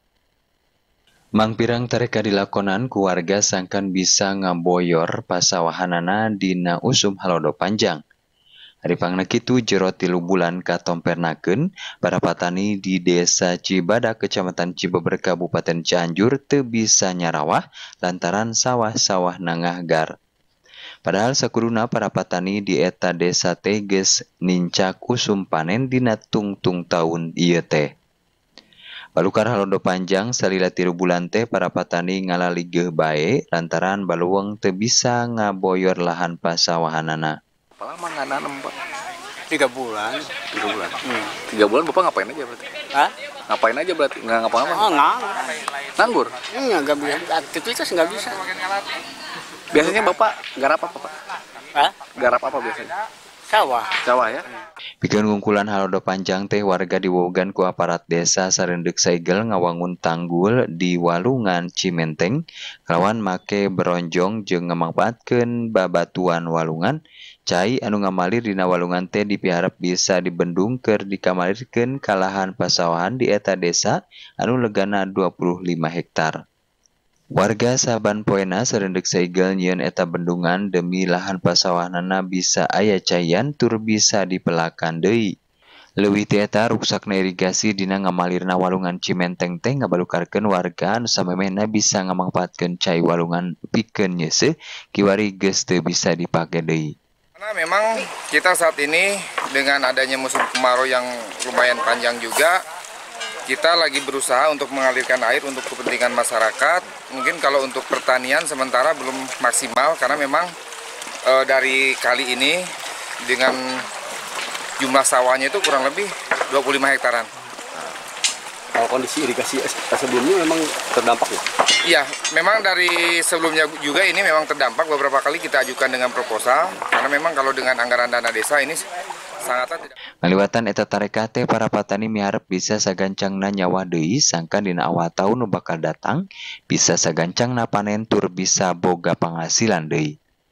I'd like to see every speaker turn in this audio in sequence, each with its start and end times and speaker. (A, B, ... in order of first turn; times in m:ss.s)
0:01.4-0:08.0 A
0:08.8-0:20.1 A
0:21.0-0:27.9 A
0:29.2-0:37.3 A
0:37.8-0:38.7 B
0:39.5-0:40.5 C
0:40.5-0:42.7 B
0:41.0-0:41.4 C
0:43.5-0:44.9 B
0:44.7-0:45.5 C
0:46.0-0:46.3 B
0:46.5-0:48.4 C
0:49.7-0:51.2 B
0:51.8-0:52.1 C
0:52.1-0:52.9 B
0:53.5-0:54.0 C
0:54.0-0:54.5 B
0:55.0-1:07.0 A
1:07.5-1:16.3 A
1:17.4-1:25.2 A
1:26.0-1:36.9 A
1:37.4-1:42.6 D
1:43.5-1:50.5 D
1:51.3-1:52.6 D
1:53.2-1:53.8 D
1:54.8-1:57.3 D
1:58.8-2:01.4 E
2:01.8-2:08.8 D
2:09.4-2:09.9 D
2:10.2-2:20.1 A